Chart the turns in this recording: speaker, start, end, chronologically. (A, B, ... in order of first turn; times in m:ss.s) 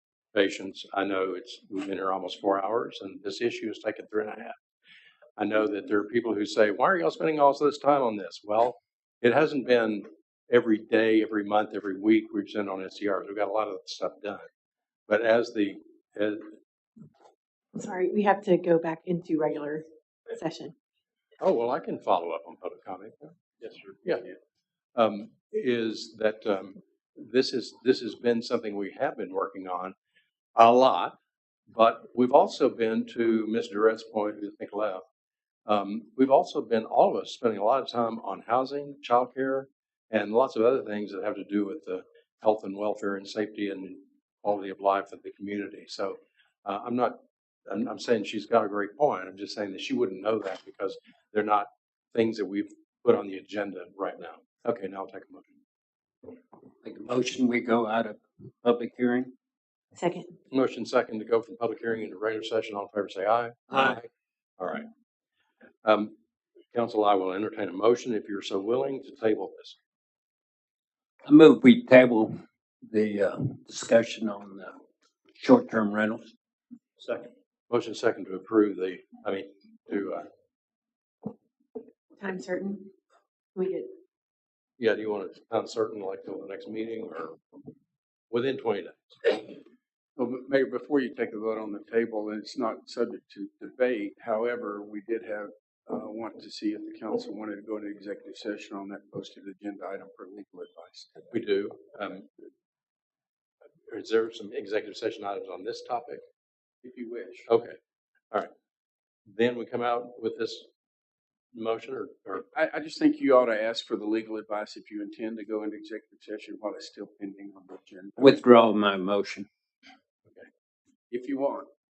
0:00.3-0:04.6 A
0:05.4-0:14.5 A
0:15.1-0:16.5 A
0:17.8-0:20.7 B
0:21.4-0:23.4 A
0:25.0-0:30.0 A
0:30.6-0:31.2 A
0:31.7-0:35.0 A
0:35.7-0:55.6 A
0:56.8-0:59.3 C
0:59.9-1:00.3 B
1:00.5-1:04.9 A
1:05.8-1:06.1 A
1:06.7-1:09.8 A
1:11.2-1:14.8 C
1:15.3-1:16.3 C
1:17.7-1:20.3 A
1:22.2-1:22.9 B
1:23.6-1:23.9 B
1:24.8-1:27.4 A
1:28.3-1:29.5 A
1:30.2-1:41.3 D
1:41.3-1:42.3 A
1:43.9-1:46.2 A
1:46.8-1:47.5 D
1:47.5-1:47.8 A
1:49.3-1:50.7 A
1:51.5-1:52.5 A
1:52.5-1:58.4 D
1:58.2-1:59.5 C
2:01.1-2:01.7 D